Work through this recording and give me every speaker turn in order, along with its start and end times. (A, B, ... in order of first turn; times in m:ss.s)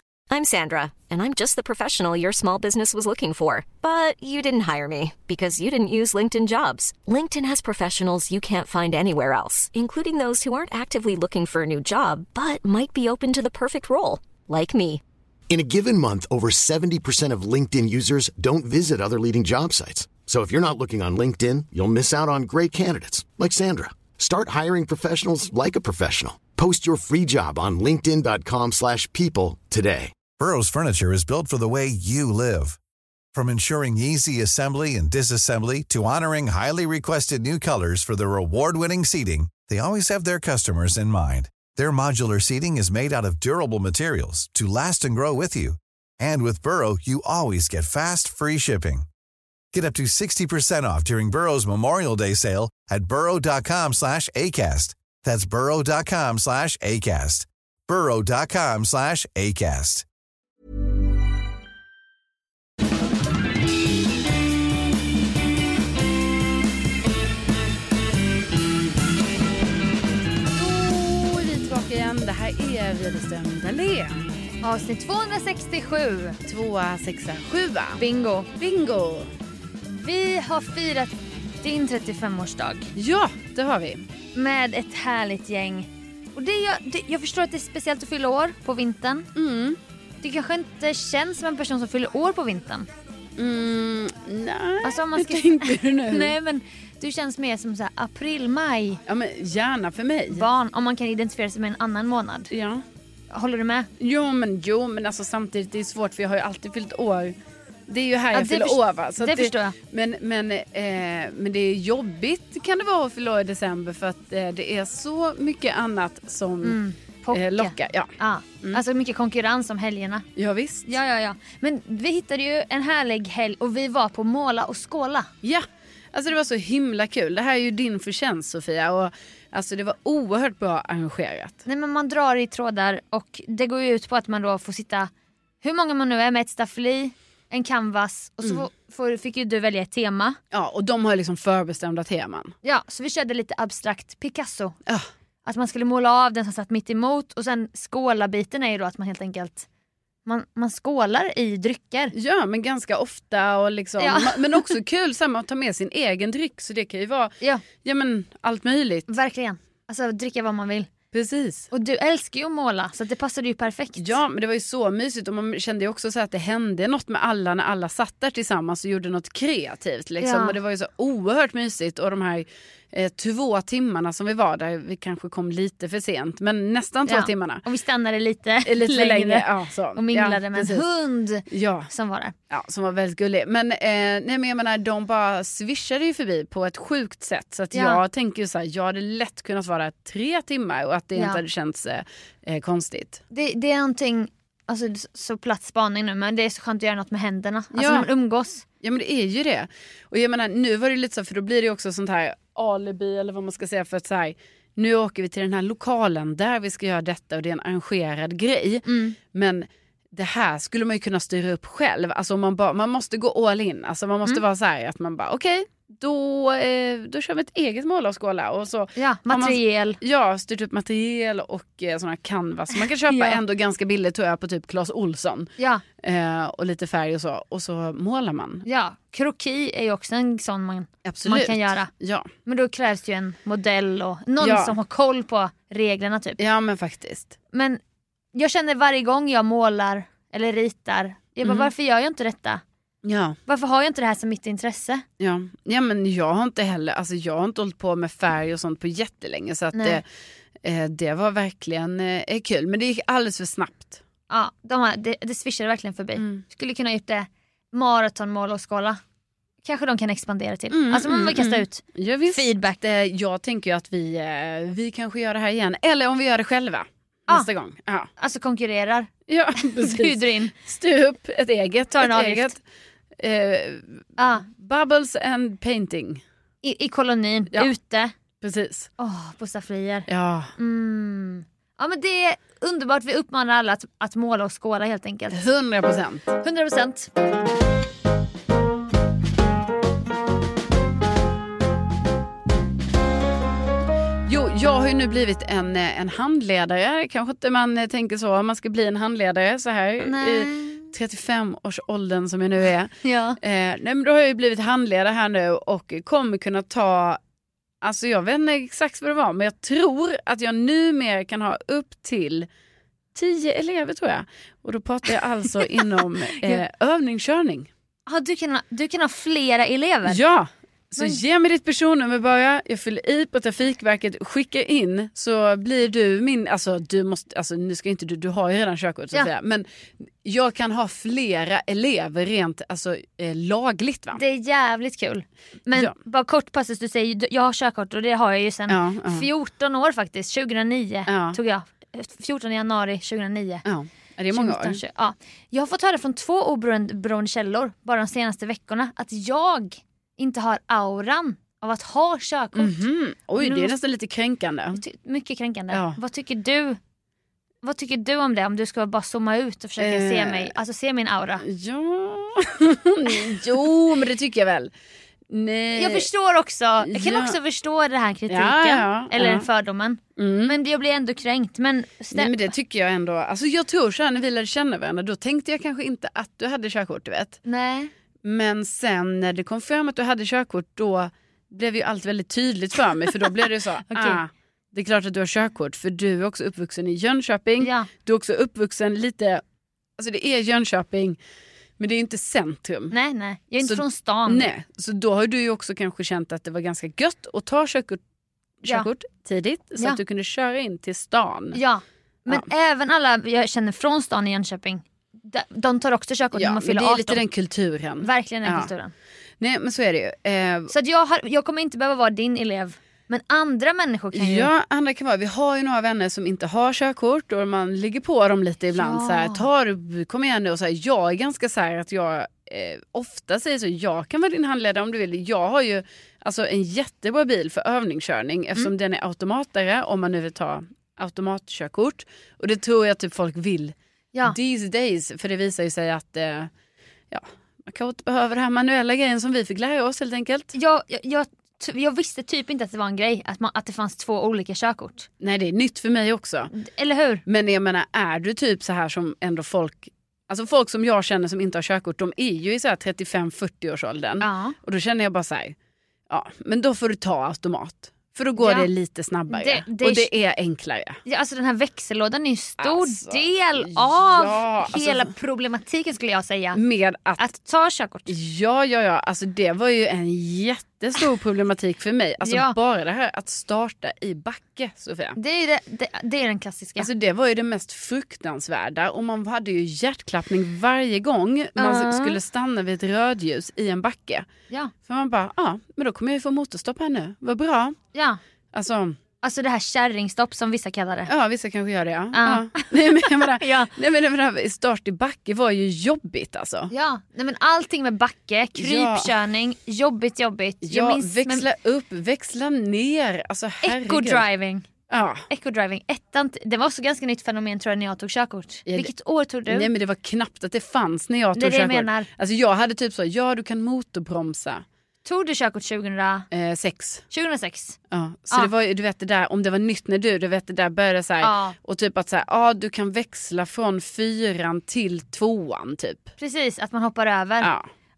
0:00.3-0:15.0 A
0:15.5-0:30.2 B
0:30.4-0:32.8 C
0:33.3-0:49.1 C
0:49.7-1:00.0 C
1:10.5-1:14.3 D
1:14.6-1:16.4 E
1:16.5-1:18.0 D
1:18.0-1:18.5 E
1:18.6-1:19.3 D
1:19.9-1:22.9 E
1:23.0-1:24.1 D
1:24.3-1:29.3 E
1:29.4-1:29.8 D
1:30.2-1:32.9 E
1:33.4-1:36.4 D
1:34.8-1:39.0 E
1:39.1-1:40.5 D
1:40.3-1:42.5 E
1:42.5-1:42.8 D
1:43.3-1:43.9 E
1:44.0-1:47.4 D
1:47.9-1:58.8 D
1:48.3-1:49.8 E
1:56.6-2:00.3 E
2:00.4-2:00.9 D
2:00.9-2:05.3 E
2:05.4-2:11.6 D
2:11.7-2:15.1 E
2:15.6-2:20.4 E
2:20.5-2:22.6 D
2:22.6-2:24.8 E
2:25.4-2:29.7 E
2:30.2-2:32.1 E
2:32.2-2:39.1 D
2:34.0-2:34.7 E
2:39.1-2:40.9 E
2:41.1-2:41.7 D
2:41.7-2:44.2 E
2:44.0-2:57.6 D
2:50.2-2:50.6 E
2:57.1-3:02.4 E
2:58.6-3:00.8 D
3:01.5-3:01.9 D
3:02.5-3:13.2 D
3:07.7-3:08.0 E
3:11.2-3:11.4 E
3:13.3-3:18.6 E
3:17.7-3:18.1 D
3:18.8-3:45.5 D
3:28.9-3:29.2 E
3:39.0-3:40.0 E
3:42.8-3:43.4 E
3:45.6-3:45.8 E
3:46.0-3:48.6 D
3:48.6-3:51.9 E
3:51.0-3:52.3 D
3:52.5-3:56.4 E
3:54.4-3:54.8 D
3:56.4-3:57.4 D
3:57.5-3:57.8 E
3:58.3-4:02.6 E
4:01.4-4:01.7 D
4:03.0-4:03.4 D
4:03.5-4:05.0 E
4:05.2-4:10.0 D
4:09.7-4:10.0 E
4:10.6-4:14.0 D
4:14.3-4:19.0 E
4:16.2-4:16.4 D
4:19.6-4:22.8 E
4:20.7-4:28.1 D
4:28.2-4:29.1 E
4:29.3-4:32.6 D
4:29.8-4:30.5 E
4:31.9-4:32.5 E
4:33.2-4:36.2 D
4:34.2-4:34.4 E
4:36.6-4:38.1 E
4:38.4-4:38.9 D
4:39.0-4:45.5 E
4:40.1-4:40.5 D
4:45.3-4:46.3 D
4:46.4-4:47.1 E
4:54.3-5:07.2 D
5:00.0-5:00.9 E
5:03.0-5:03.4 E
5:07.8-5:12.5 D
5:13.2-5:17.7 D
5:18.1-5:20.2 E
5:20.1-5:34.2 D
5:34.1-5:43.6 E
5:38.7-5:39.3 D
5:41.1-5:41.4 D
5:43.7-5:44.8 D
5:44.3-5:52.8 E
5:52.6-5:54.8 D
5:53.4-5:53.7 E
5:54.8-5:56.8 E
5:55.7-5:56.0 D
5:57.6-6:01.4 E
5:59.8-6:00.5 D
6:01.4-6:04.7 D
6:05.3-6:06.1 D
6:05.8-6:12.5 E
6:06.8-6:07.4 D
6:08.3-6:09.5 D
6:10.2-6:10.6 D
6:12.1-6:17.4 D
6:17.5-6:17.9 E
6:18.2-6:29.4 D
6:23.9-6:24.2 E
6:27.6-6:27.9 E
6:30.0-6:31.2 D
6:31.8-6:33.0 D
6:32.9-6:34.5 E
6:33.6-6:38.0 D
6:38.6-6:41.6 D
6:41.5-6:47.2 E
6:46.3-6:48.7 D
6:48.0-6:48.9 E
6:49.4-6:50.7 D
6:50.7-6:54.5 E
6:54.1-7:16.5 D
6:58.8-6:59.5 E
7:17.1-7:20.6 D
7:20.5-7:25.1 E
7:25.2-7:26.5 D
7:26.5-7:27.2 E
7:27.3-7:35.6 D
7:34.2-7:34.6 E
7:36.1-7:41.0 D
7:38.4-7:38.7 E
7:39.3-7:40.1 E
7:41.0-7:46.6 E
7:42.6-7:45.1 D
7:46.5-7:47.3 D
7:47.2-7:48.1 E
7:48.1-7:55.2 D
7:52.2-7:52.6 E
7:55.2-7:56.9 E
7:56.8-8:04.3 D
8:01.6-8:02.2 E
8:04.9-8:07.8 D
8:07.9-8:08.2 E
8:08.5-8:09.0 D
8:09.2-8:11.1 E
8:11.1-8:16.7 D
8:12.1-8:13.7 E
8:16.7-8:21.5 E
8:18.6-8:19.1 D
8:20.6-8:24.2 D
8:23.6-8:24.7 E
8:24.9-8:25.2 D
8:25.3-8:29.7 E
8:29.5-8:34.6 D
8:31.4-8:32.1 E
8:35.0-8:36.3 E
8:36.3-8:37.0 D
8:37.1-8:37.8 E
8:37.9-8:46.1 D
8:41.2-8:41.6 E
8:46.2-8:47.5 E
8:47.4-8:47.7 D